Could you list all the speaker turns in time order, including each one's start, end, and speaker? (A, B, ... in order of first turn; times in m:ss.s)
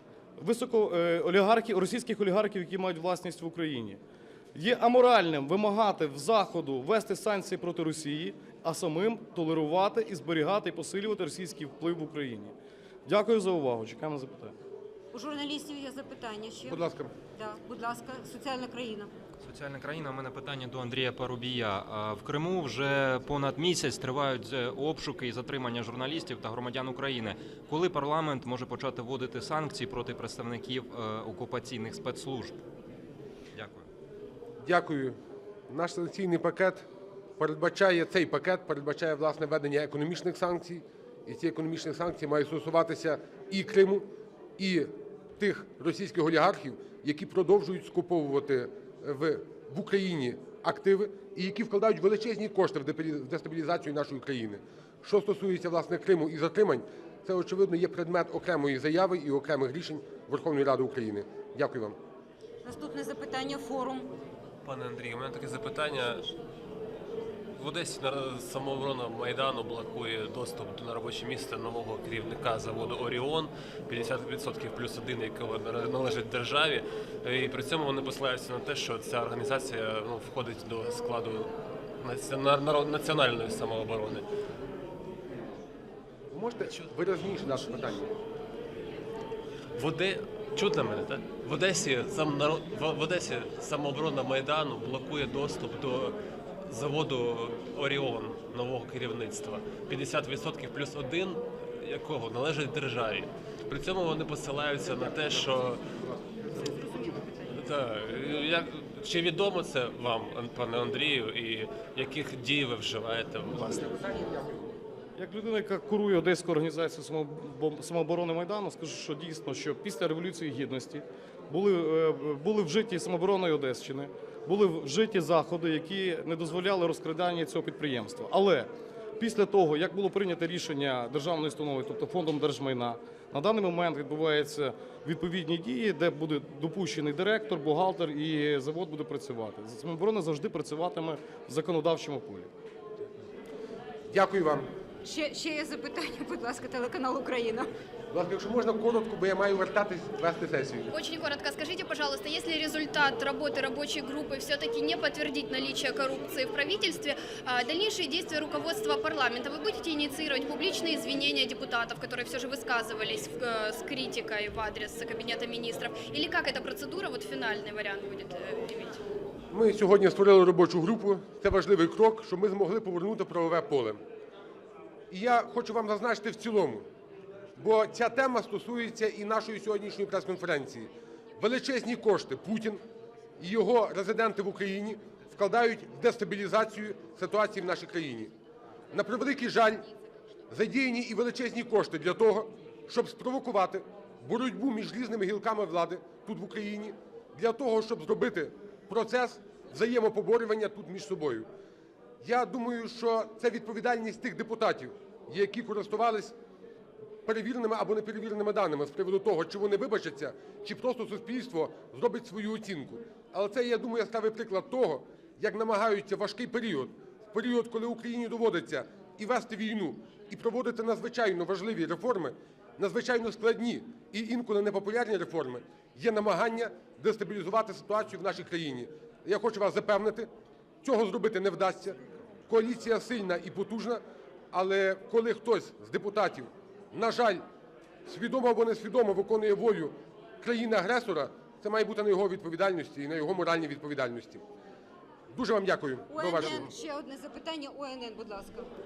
0:00.4-0:04.0 A
0:04.5-0:12.5 A
0:13.0-0:14.5 A
0:15.1-0:16.8 B
0:16.7-0:17.1 C
0:17.4-0:19.1 B
0:19.4-0:32.6 D
0:33.5-0:33.8 D
0:34.6-0:35.2 C
0:35.7-0:36.8 C
0:37.4-0:44.0 C
0:44.6-1:02.0 C
1:02.6-1:04.1 B
1:04.6-1:06.3 E
1:07.6-1:21.5 E
1:22.0-1:24.2 E
1:26.3-1:28.1 C
1:29.8-1:36.2 E
1:36.7-1:45.8 E
1:46.8-1:47.3 B
1:47.5-1:53.8 E
1:53.6-1:54.7 C
1:55.2-2:22.5 A
2:24.1-2:24.7 C
2:25.0-2:27.7 B
2:28.1-2:30.9 C
2:30.9-2:49.0 F
2:49.5-2:54.0 C
2:55.1-2:56.8 C
2:57.6-3:02.8 C
3:03.4-3:08.3 C
3:08.9-3:09.8 C
3:10.5-3:21.5 C
3:22.2-3:26.3 C
3:27.2-3:50.3 C
3:50.8-3:57.4 C
3:58.0-4:04.4 C
4:05.3-4:06.7 C
4:06.1-4:08.7 B